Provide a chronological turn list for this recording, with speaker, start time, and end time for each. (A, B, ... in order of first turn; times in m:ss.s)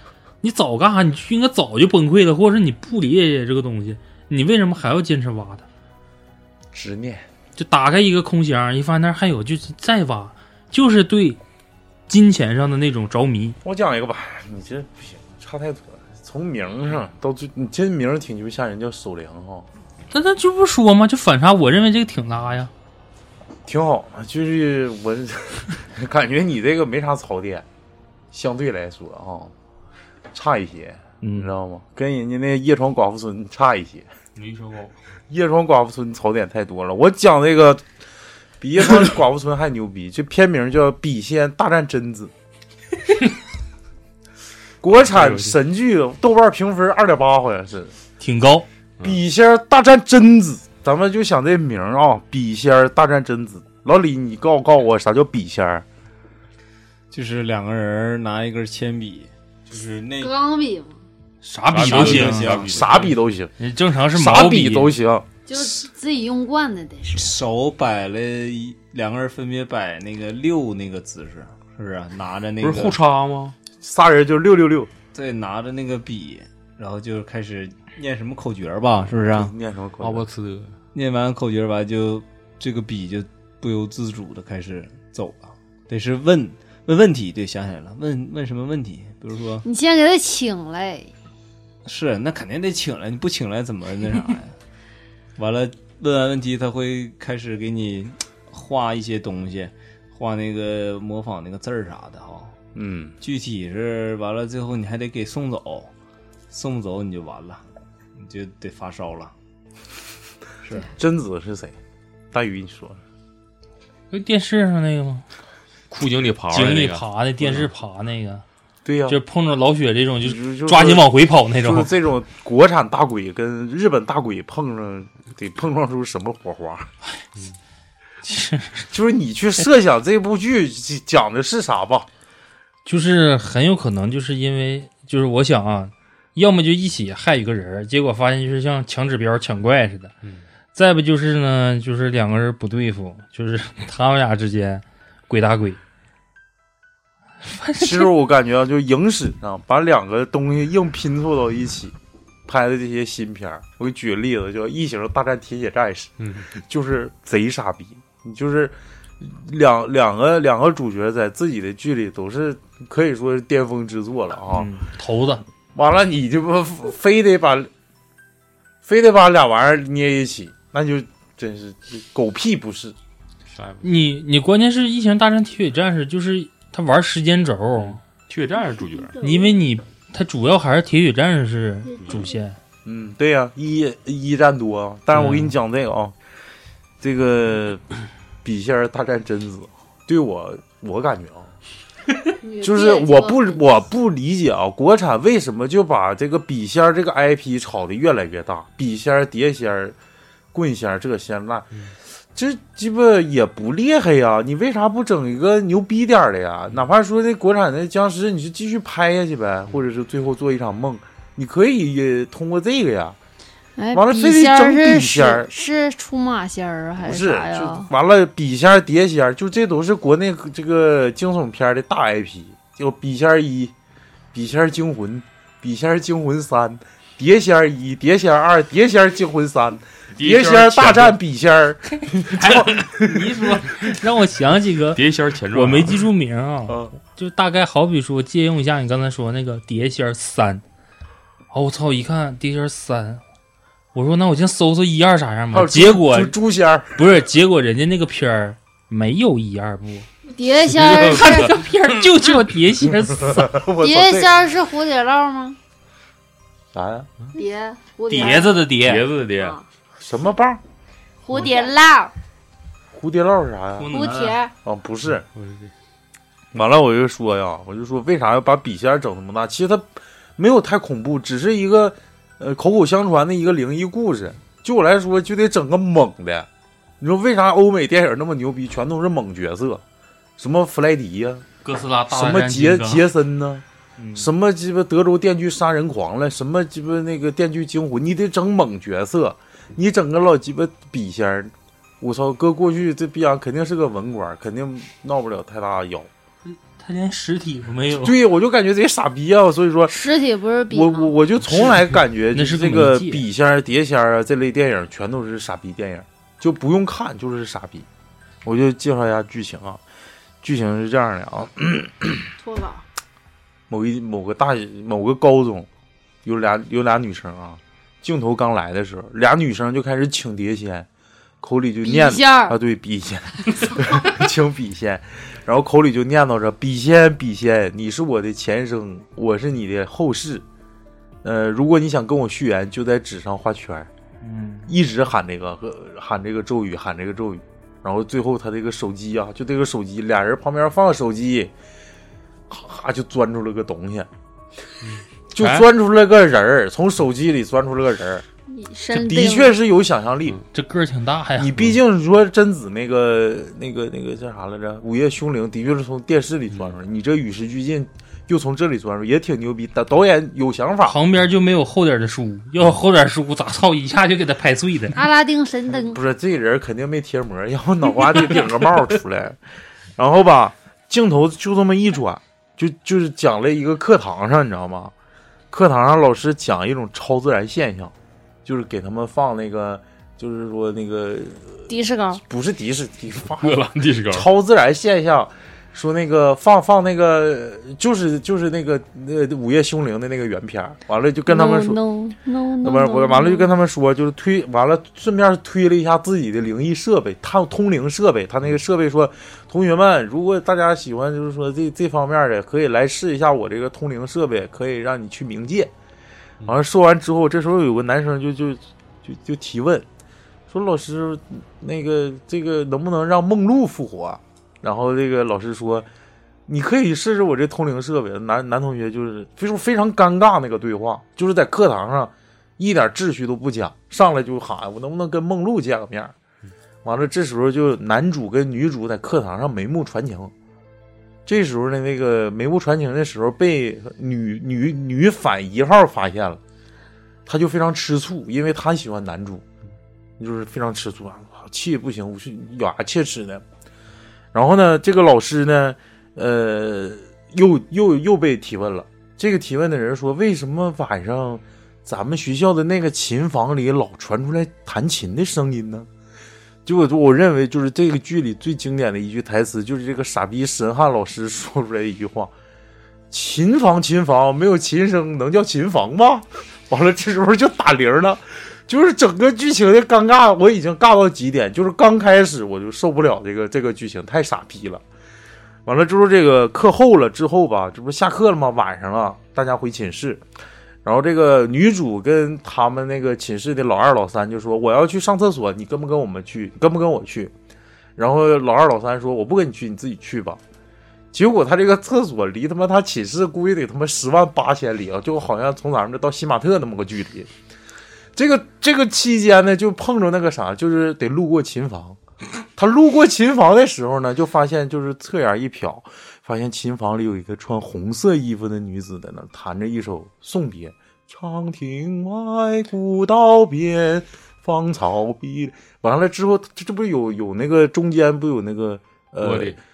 0:00.4-0:05.6 A
0:06.7-0:07.3 B
0:07.6-0:11.4 A
0:12.1-0:13.6 A
0:13.6-0:19.7 B
0:20.1-0:22.7 A
0:23.6-0:27.6 B
0:28.3-0:29.5 B
0:30.3-0:34.1 B
0:31.2-0:31.5 A
0:34.4-0:34.9 C
0:35.3-0:37.8 B
0:38.6-0:42.3 B
0:44.8-0:47.9 B
0:45.0-0:45.6 C
0:48.2-0:48.7 A
0:49.0-0:55.8 B
0:57.1-1:00.3 D
1:00.2-1:01.0 E
1:01.4-1:02.6 A
1:01.7-1:03.2 C
1:01.7-1:03.2 D
1:02.7-1:03.5 B
1:03.6-1:05.0 A
1:04.1-1:05.3 B
1:05.5-1:07.3 E
1:07.1-1:13.0 D
1:12.6-1:13.5 C
1:13.8-1:14.9 B
1:15.1-1:19.5 D
1:19.3-1:20.2 B
1:20.0-1:20.8 C
1:20.9-1:29.6 D
1:29.6-1:31.1 E
1:31.8-1:34.6 D
1:35.4-1:42.6 D
1:42.7-1:43.2 B
1:43.2-1:45.9 D
1:46.5-1:47.6 D
1:48.2-1:49.3 D
1:50.6-1:50.9 D
1:50.8-1:51.8 B
1:52.3-1:53.0 B
1:54.1-1:55.2 A
1:55.9-1:57.6 C
1:56.5-1:58.4 A
1:58.8-1:59.2 B
1:59.1-2:01.9 A
2:00.2-2:01.0 B
2:01.6-2:06.9 B
2:08.2-2:08.9 A
2:08.9-2:12.1 B
2:12.8-2:20.1 A
2:20.7-2:25.8 A
2:27.4-2:28.1 A
2:27.8-2:31.9 B
2:32.5-2:44.7 B
2:36.2-2:36.4 C
2:44.5-2:45.4 A
2:45.7-2:47.7 B
2:48.8-2:53.0 B
2:53.5-2:53.8 C
2:53.8-2:58.0 A
2:57.8-2:59.2 C
2:59.2-3:02.6 A
3:02.0-3:02.2 C
3:02.8-3:06.1 B
3:05.1-3:05.5 A
3:07.0-3:07.8 B
3:08.4-3:11.5 B
3:12.4-3:13.8 E
3:12.6-3:20.0 B
3:20.5-3:21.7 B
3:22.3-3:33.2 B
3:33.8-3:37.9 E
3:33.9-3:35.5 B
3:37.0-3:43.7 B
3:44.3-3:53.6 B
3:50.2-3:51.2 C
3:52.1-3:55.0 A
3:54.9-3:56.0 C
3:55.5-4:00.6 A
3:56.7-3:56.9 B
4:01.5-4:03.2 A
4:03.9-4:06.3 A
4:05.5-4:07.0 B
4:06.9-4:10.1 A
4:10.3-4:11.6 E
4:10.8-4:11.4 C
4:10.9-4:13.5 A
4:13.2-4:14.4 B
4:13.8-4:15.6 E
4:16.7-4:17.1 B
4:17.3-4:18.7 E
4:18.1-4:19.1 A
4:18.8-4:19.6 C
4:19.3-4:19.6 E
4:20.0-4:20.6 B
4:21.2-4:22.1 E
4:22.9-4:24.0 B
4:23.8-4:24.4 A
4:23.9-4:24.5 E
4:24.6-4:25.2 B
4:25.3-4:25.7 C
4:26.5-4:36.5 B
4:37.0-4:39.8 B
4:40.4-4:41.4 B
4:41.6-4:43.0 A
4:42.1-4:43.6 B
4:44.0-4:44.3 A
4:44.2-4:56.1 B
4:56.8-4:58.2 A
4:57.9-5:00.0 B
4:59.9-5:01.1 E
5:00.7-5:07.9 B
5:01.4-5:03.2 A
5:08.4-5:09.8 B
5:10.4-5:12.3 B
5:12.4-5:12.8 E
5:13.7-5:15.7 B
5:16.2-5:20.9 B
5:21.4-5:30.4 B
5:21.8-5:22.6 E
5:31.2-5:33.9 B
5:34.2-5:34.7 A
5:34.7-5:41.5 B
5:42.5-5:44.1 B
5:45.3-5:48.2 B
5:48.5-5:49.5 E
5:48.9-5:50.4 B
5:50.5-5:51.8 A
5:51.4-6:01.0 B
6:00.8-6:05.0 A
6:04.9-6:06.0 E
6:05.7-6:09.4 B
6:10.0-6:14.9 B
6:15.5-6:17.9 B
6:18.4-6:21.7 B
6:21.7-6:22.2 E
6:22.2-6:31.8 B
6:23.4-6:24.3 C
6:31.3-6:33.5 E
6:32.6-6:45.7 B
6:46.4-6:49.8 B
6:50.5-6:55.9 B
6:56.5-7:06.1 B
7:06.8-7:10.3 B
7:11.2-7:16.4 B
7:17.2-7:19.4 B
7:20.2-7:23.4 B
7:24.3-7:35.9 B
7:36.6-7:42.3 B
7:43.1-7:54.8 B
7:55.6-8:00.2 B
8:00.8-8:07.3 B
8:08.0-8:10.4 B
8:11.1-8:17.3 B
8:18.2-8:22.0 B
8:22.6-8:39.6 B
8:39.2-8:39.6 C